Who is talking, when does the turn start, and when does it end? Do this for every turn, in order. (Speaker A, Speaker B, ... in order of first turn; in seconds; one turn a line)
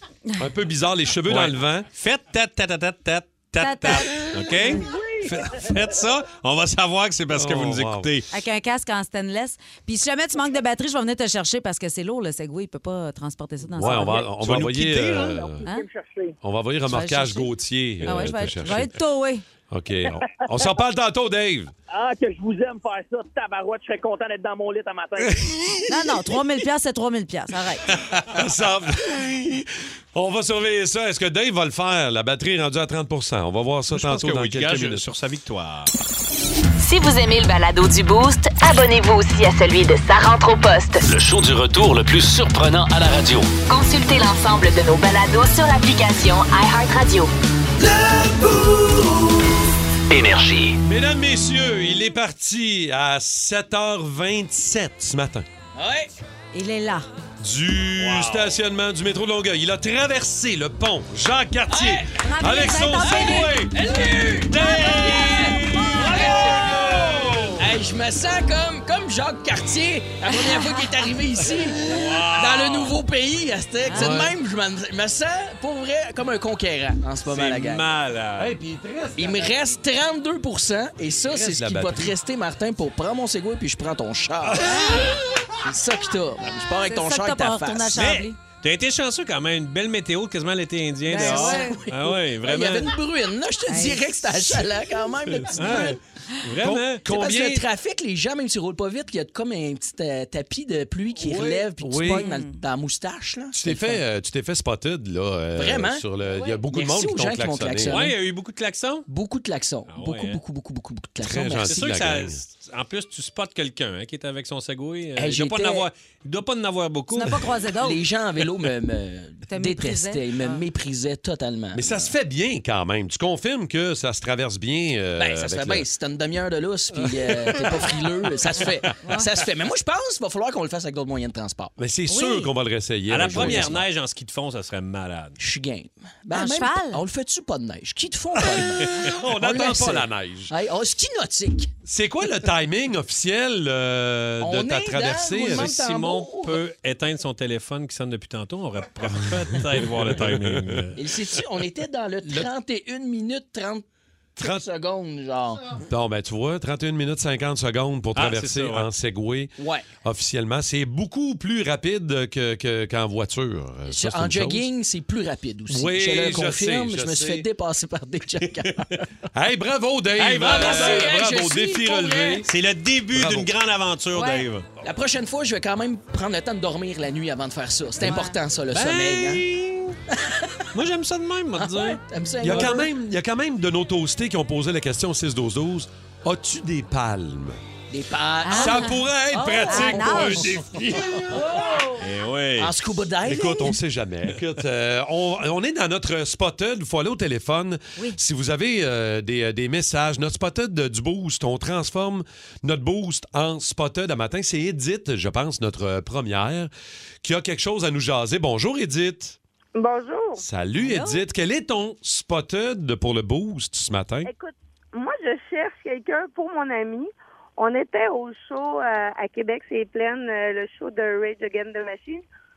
Speaker A: 0.4-1.9
Speaker B: 1.3-8.3
Speaker C: 3.6-4.8
Speaker D: 4.5-6.0
Speaker A: 7.3-8.1
Speaker C: 8.3-14.2
Speaker A: 13.7-15.7
Speaker B: 14.4-15.5
Speaker D: 15.4-16.4
Speaker A: 16.4-18.9
Speaker C: 16.9-17.5
Speaker C: 18.0-19.4
Speaker A: 19.7-21.7
Speaker D: 20.1-20.4
Speaker D: 21.9-25.4
Speaker C: 25.9-27.9
Speaker A: 27.9-35.0
Speaker B: 33.9-35.9
Speaker E: 36.8-41.0
Speaker F: 41.0-43.5
Speaker E: 43.7-47.3
Speaker G: 48.3-48.6
Speaker F: 50.1-50.8
Speaker A: 50.9-55.5
Speaker G: 55.8-56.1
Speaker C: 56.5-57.1
Speaker A: 57.4-63.8
Speaker B: 58.0-58.6
Speaker G: 61.7-62.1
Speaker C: 62.2-65.8
Speaker G: 63.0-66.8
Speaker A: 64.5-67.5
Speaker B: 64.5-67.6
Speaker G: 67.6-77.8
Speaker C: 70.2-71.1
Speaker B: 71.8-73.0
Speaker C: 73.8-74.1
Speaker A: 73.9-74.4
Speaker B: 77.2-78.6
Speaker A: 78.4-79.7
Speaker G: 79.2-85.0
Speaker A: 81.2-82.2
Speaker A: 84.4-85.2
Speaker G: 85.6-88.0
Speaker C: 86.8-88.4
Speaker B: 87.9-93.0
Speaker C: 91.1-91.8
Speaker G: 91.1-96.0
Speaker C: 93.7-94.3
Speaker A: 95.3-95.9
Speaker B: 95.4-97.5
Speaker A: 96.6-97.6
Speaker G: 97.0-104.0
Speaker A: 101.2-102.3
Speaker C: 102.0-102.6
Speaker A: 103.5-108.0
Speaker G: 105.6-108.1
Speaker B: 107.9-109.1
Speaker G: 109.1-111.8
Speaker B: 109.9-110.4
Speaker A: 111.2-112.4
Speaker B: 111.5-117.5
Speaker G: 115.2-115.9
Speaker C: 117.1-118.0
Speaker G: 117.8-122.1
Speaker C: 119.5-120.6
Speaker A: 121.7-125.9
Speaker G: 125.2-131.7
Speaker A: 127.4-127.9
Speaker C: 129.0-129.3
Speaker A: 131.8-133.9
Speaker C: 132.1-132.5
Speaker B: 133.1-135.4
Speaker G: 133.3-133.7
Speaker G: 135.4-141.7
Speaker C: 136.3-137.0
Speaker A: 138.9-140.5
Speaker A: 141.8-145.8
Speaker G: 144.4-146.6
Speaker B: 145.4-151.0
Speaker A: 150.0-150.7
Speaker G: 151.0-153.9
Speaker G: 154.4-155.7
Speaker A: 154.4-154.7
Speaker A: 155.9-164.7
Speaker B: 158.2-158.9
Speaker G: 159.6-159.9
Speaker G: 163.9-168.9
Speaker A: 165.7-167.5
Speaker A: 169.3-172.5
Speaker B: 170.1-171.2
Speaker G: 170.3-172.5
Speaker B: 172.4-174.7
Speaker A: 173.1-173.5
Speaker C: 174.2-174.5
Speaker G: 174.8-179.4
Speaker C: 178.0-178.4
Speaker B: 178.7-180.0
Speaker G: 180.1-180.7
Speaker B: 180.7-182.6
Speaker G: 181.6-182.9
Speaker A: 182.4-187.6
Speaker G: 187.9-192.0
Speaker C: 188.4-189.0
Speaker A: 188.5-191.5
Speaker C: 189.7-190.5
Speaker B: 190.1-190.6
Speaker B: 192.0-192.7
Speaker G: 192.6-193.8
Speaker A: 193.2-206.7
Speaker A: 207.2-209.4
Speaker H: 209.8-210.4
Speaker A: 210.4-214.3
Speaker C: 210.8-211.2
Speaker H: 214.2-222.3